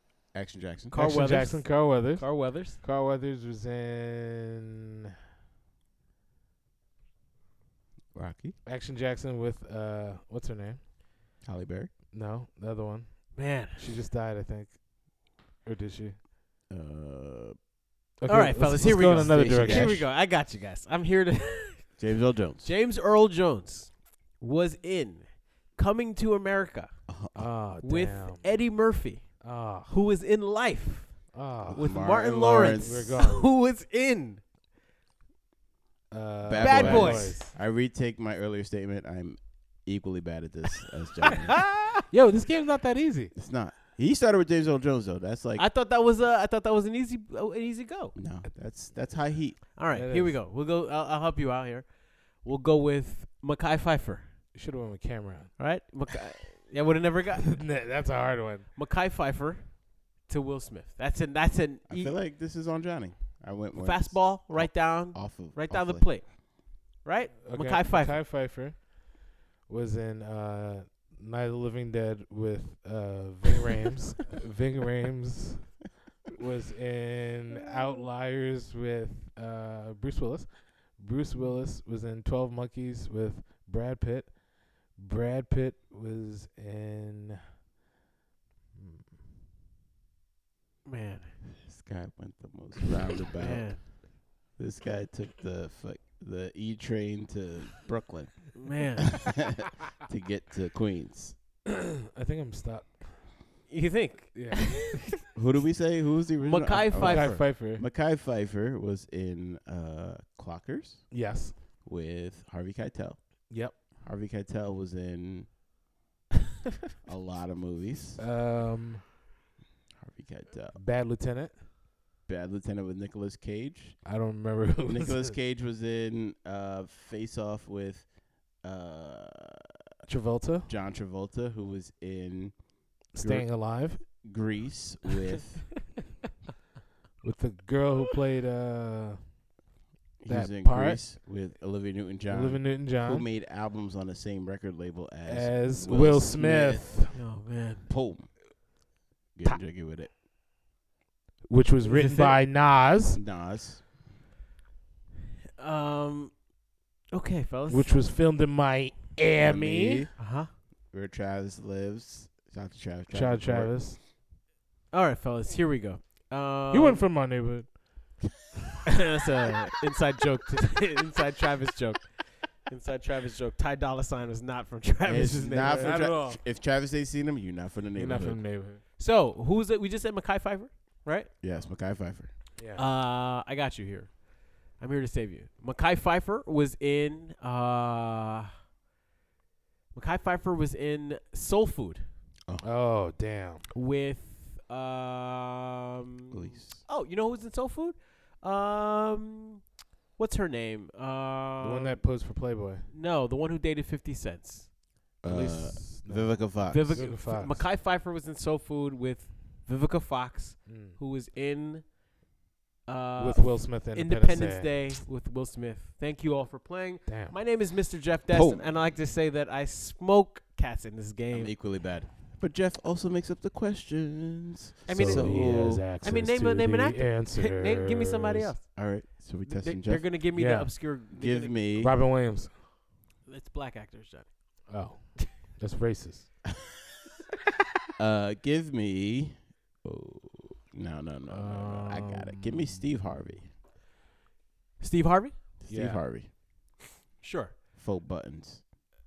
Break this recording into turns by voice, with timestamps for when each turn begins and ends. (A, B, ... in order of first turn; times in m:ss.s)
0:00.3-0:01.0 A
0:00.9-0:02.8 B
0:00.9-0:04.9 C
0:08.1-0:08.6 A
0:08.6-0:10.8 C
0:11.4-0:11.9 A
0:12.1-0:15.0 C
0:13.3-0:13.9 B
0:15.6-0:16.2 C
0:16.7-0:17.6 A
0:18.2-0:20.0 C
0:18.3-0:22.0 B
0:18.8-0:20.1 A
0:22.0-0:22.7 A
0:22.6-0:26.9 B
0:27.1-0:27.4 A
0:27.3-0:28.5 C
0:27.8-0:34.4 B
0:29.4-0:29.9 C
0:31.3-0:31.9 C
0:31.7-0:33.1 A
0:32.6-0:33.5 C
0:36.1-0:37.5 C
0:36.4-0:41.7 A
0:36.6-0:37.5 B
0:41.7-0:42.0 B
0:42.1-0:43.3 C
0:43.3-0:45.6 A
0:45.6-0:48.1 B
0:48.1-0:49.7 A
0:49.7-0:54.3 B
0:49.9-0:50.4 C
0:54.5-0:55.5 C
0:55.6-0:57.8 B
0:57.5-0:58.7 C
0:58.7-1:02.2 B
1:01.9-1:06.2 A
1:03.7-1:08.2 B
1:07.4-1:15.8 C
1:16.3-1:27.4 C
1:28.7-1:29.2 C
1:30.8-1:31.3 B
1:31.6-1:41.4 A
1:33.4-1:33.8 B
1:38.6-1:39.3 B
1:42.0-1:43.3 C
1:43.7-1:45.1 B
1:44.3-1:45.1 C
1:45.3-1:51.3 A
1:46.4-1:47.3 B
1:47.0-1:47.8 C
1:51.1-1:51.6 C
1:51.8-1:55.6 A
1:53.5-1:53.8 C
1:57.0-1:58.2 A
1:58.2-1:59.1 C
2:00.0-2:00.8 A
2:00.7-2:01.6 C
2:02.3-2:04.0 A
2:04.0-2:05.3 C
2:04.8-2:09.7 A
2:10.1-2:10.7 C
2:10.6-2:15.9 A
2:13.1-2:14.0 C
2:17.2-2:19.4 C
2:20.2-2:27.3 A
2:20.3-2:21.0 C
2:22.3-2:23.3 C
2:25.2-2:27.2 C
2:27.1-2:27.9 B
2:27.9-2:28.4 A
2:29.4-2:30.1 A
2:31.5-2:33.2 C
2:31.8-2:32.4 B
2:33.1-2:33.9 A
2:35.6-2:36.4 B
2:37.1-2:38.0 B
2:37.7-2:40.1 C
2:39.4-2:43.9 A
2:40.2-2:40.5 B
2:43.1-2:44.0 C
2:44.9-2:47.0 B
2:46.7-2:48.3 C
2:48.8-2:56.0 B
2:55.0-2:58.4 A
2:55.7-2:56.4 C
2:57.9-2:58.8 C
2:59.0-3:01.3 B
3:01.4-3:02.3 A
3:02.6-3:02.8 C
3:02.7-3:08.5 B
3:09.9-3:12.0 B
3:12.6-3:13.6 C
3:13.7-3:19.6 B
3:16.3-3:16.8 A
3:20.2-3:22.0 B
3:21.6-3:22.9 C
3:22.9-3:24.7 B
3:25.2-3:27.1 A
3:25.2-3:27.7 C
3:26.7-3:31.9 B
3:30.6-3:31.0 C
3:32.8-3:41.5 B
3:33.2-3:34.9 C
3:37.0-3:37.4 C
3:38.3-3:38.7 A
3:41.3-3:45.9 A
3:44.9-3:48.8 B
3:44.9-3:48.5 C
3:48.7-3:50.2 A
3:49.4-3:51.6 B
3:50.3-3:50.7 C
3:51.1-3:52.0 A
3:51.8-3:52.5 C
3:53.2-3:54.7 B
3:54.7-3:56.3 C
3:58.0-4:03.5 A
4:01.3-4:02.9 C
4:04.8-4:05.4 B
4:05.6-4:06.3 A
4:05.7-4:06.0 C
4:07.2-4:07.6 B
4:07.7-4:08.6 A